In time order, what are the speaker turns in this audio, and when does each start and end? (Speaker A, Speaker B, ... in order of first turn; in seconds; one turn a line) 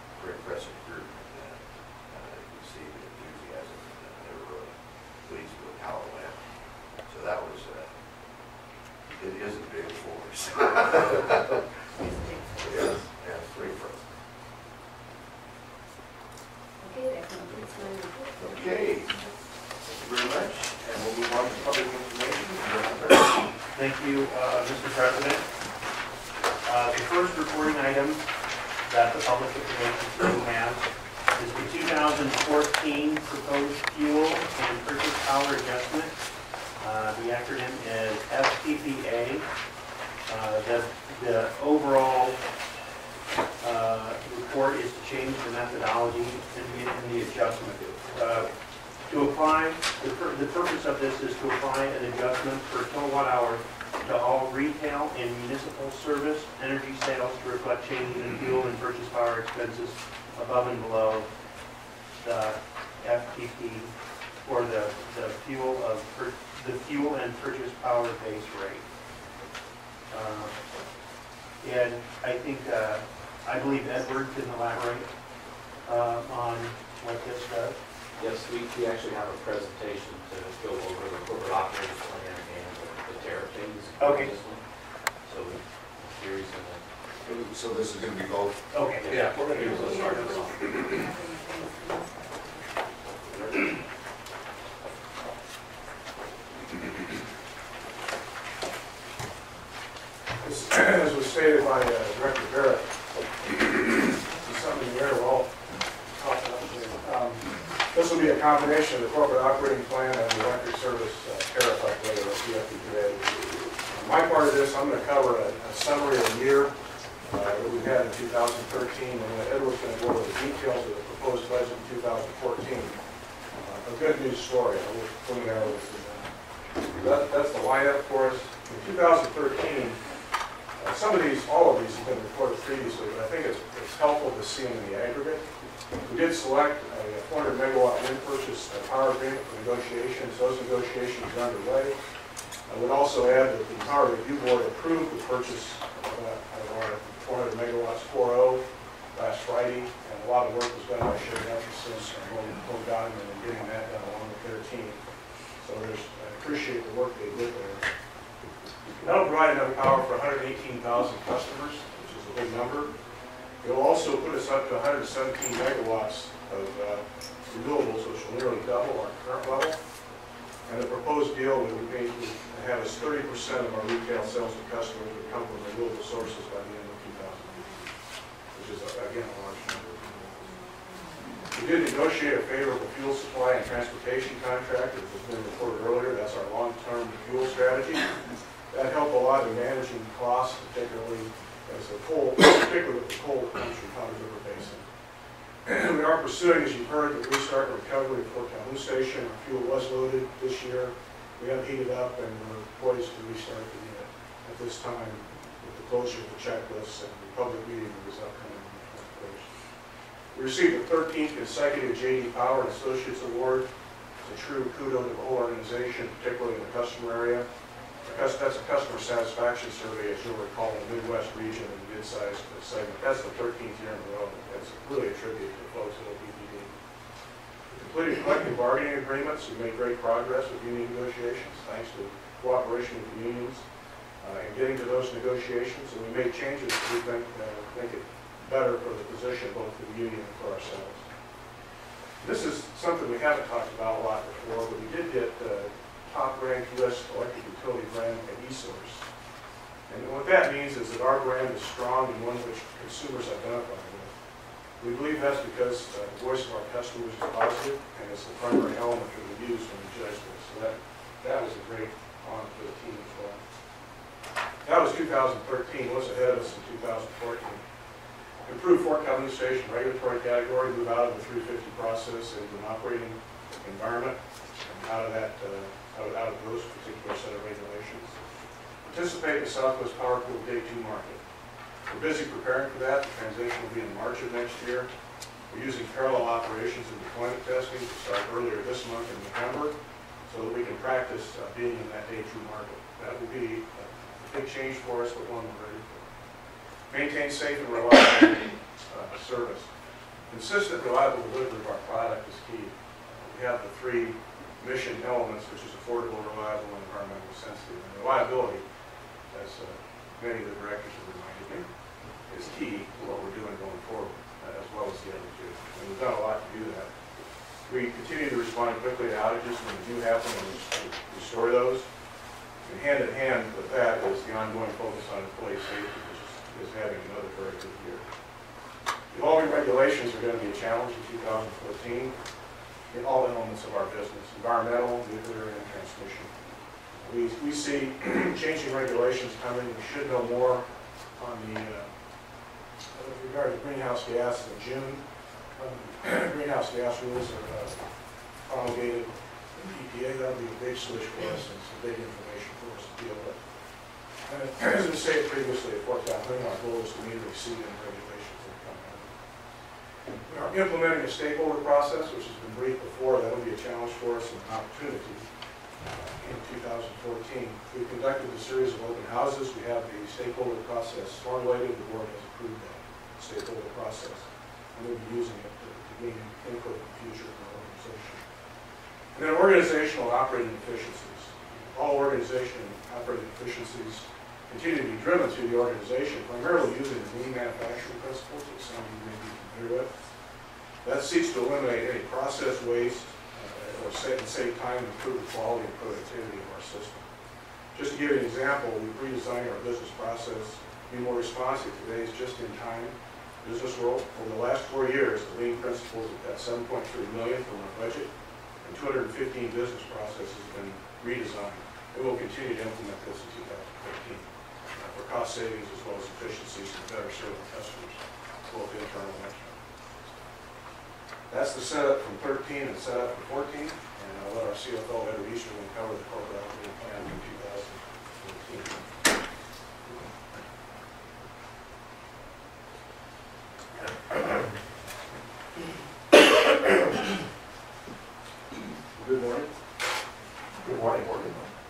Speaker A: 0.1-6.3
Speaker A: 7.1-7.9
Speaker A: 9.1-11.6
Speaker B: 12.0-12.4
Speaker A: 12.6-14.0
Speaker B: 16.8-18.4
Speaker A: 18.4-19.2
Speaker A: 19.8-23.4
Speaker C: 23.7-25.4
Speaker C: 26.6-28.2
Speaker C: 28.9-30.8
Speaker C: 31.3-36.1
Speaker C: 36.8-39.4
Speaker C: 40.3-42.4
Speaker C: 43.6-48.5
Speaker C: 49.1-61.3
Speaker C: 62.2-63.9
Speaker C: 64.4-68.8
Speaker C: 70.1-70.6
Speaker C: 71.6-75.1
Speaker C: 75.8-77.8
Speaker D: 78.2-84.6
Speaker C: 84.0-84.3
Speaker D: 85.2-86.8
Speaker A: 87.2-88.6
Speaker C: 88.7-90.6
Speaker D: 89.0-90.5
Speaker B: 89.7-92.8
Speaker E: 100.4-102.9
Speaker E: 104.3-105.5
Speaker E: 106.1-113.3
Speaker E: 113.9-116.7
Speaker E: 117.2-123.0
Speaker E: 123.6-126.3
Speaker E: 126.9-130.0
Speaker E: 130.8-135.4
Speaker E: 136.0-141.9
Speaker E: 142.7-155.0
Speaker E: 155.6-157.8
Speaker E: 159.0-162.9
Speaker E: 163.6-169.8
Speaker E: 170.6-177.9
Speaker E: 178.5-180.5
Speaker E: 181.5-188.2
Speaker E: 188.7-194.8
Speaker E: 195.6-209.5
Speaker E: 210.3-213.7
Speaker E: 214.2-217.4
Speaker E: 218.0-226.8
Speaker E: 227.7-233.6
Speaker E: 234.2-241.0
Speaker E: 242.2-249.1
Speaker E: 249.9-254.1
Speaker E: 254.8-263.4
Speaker E: 264.6-267.6
Speaker E: 268.4-278.1
Speaker E: 278.8-281.2
Speaker E: 281.9-284.9
Speaker E: 285.5-289.8
Speaker E: 290.3-296.1
Speaker E: 296.9-299.7
Speaker E: 300.3-308.6
Speaker E: 309.3-311.7
Speaker E: 312.3-316.9
Speaker E: 317.6-321.9
Speaker E: 322.6-328.0
Speaker E: 329.1-332.1
Speaker E: 332.9-336.3
Speaker E: 337.0-341.9
Speaker E: 342.9-345.0
Speaker E: 345.6-347.8
Speaker E: 348.4-353.4
Speaker E: 354.3-359.1
Speaker E: 360.2-365.3
Speaker E: 365.9-378.2
Speaker E: 379.1-389.9
Speaker E: 390.8-397.1
Speaker E: 397.7-408.1
Speaker E: 408.6-414.2
Speaker E: 414.8-419.6
Speaker E: 421.3-428.9
Speaker D: 438.9-439.5
Speaker C: 440.6-441.1